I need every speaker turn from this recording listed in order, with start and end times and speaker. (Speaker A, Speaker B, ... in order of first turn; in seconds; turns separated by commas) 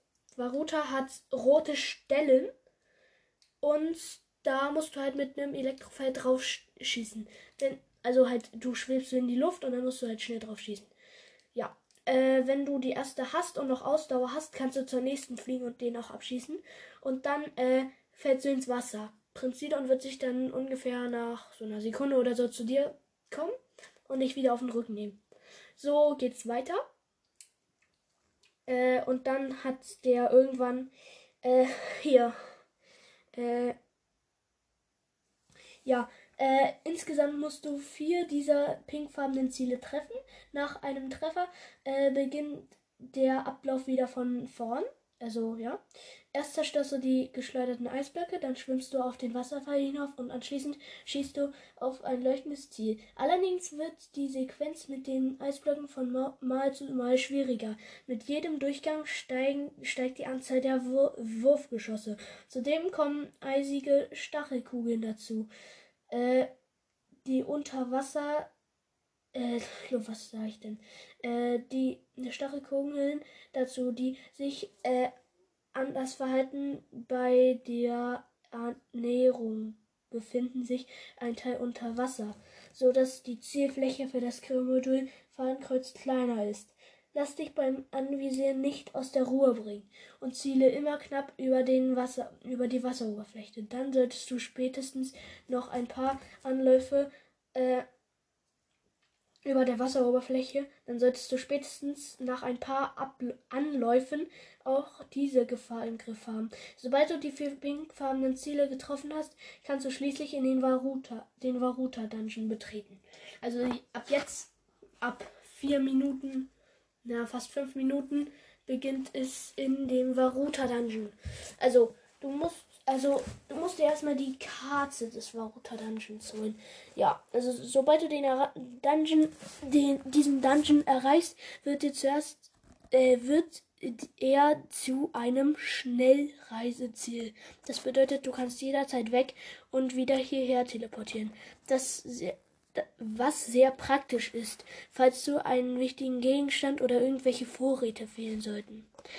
Speaker A: 0.3-2.5, Speaker A: 3.6-10.9, Speaker A: 11.5-23.5, Speaker A: 24.1-25.2, Speaker A: 25.8-26.8, Speaker A: 28.6-30.9, Speaker A: 31.4-32.4, Speaker A: 33.3-33.8, Speaker A: 35.8-65.5, Speaker A: 66.1-66.5, Speaker A: 67.2-68.5, Speaker A: 69.3-75.1, Speaker A: 75.7-97.8, Speaker A: 99.5-116.5, Speaker A: 117.0-148.9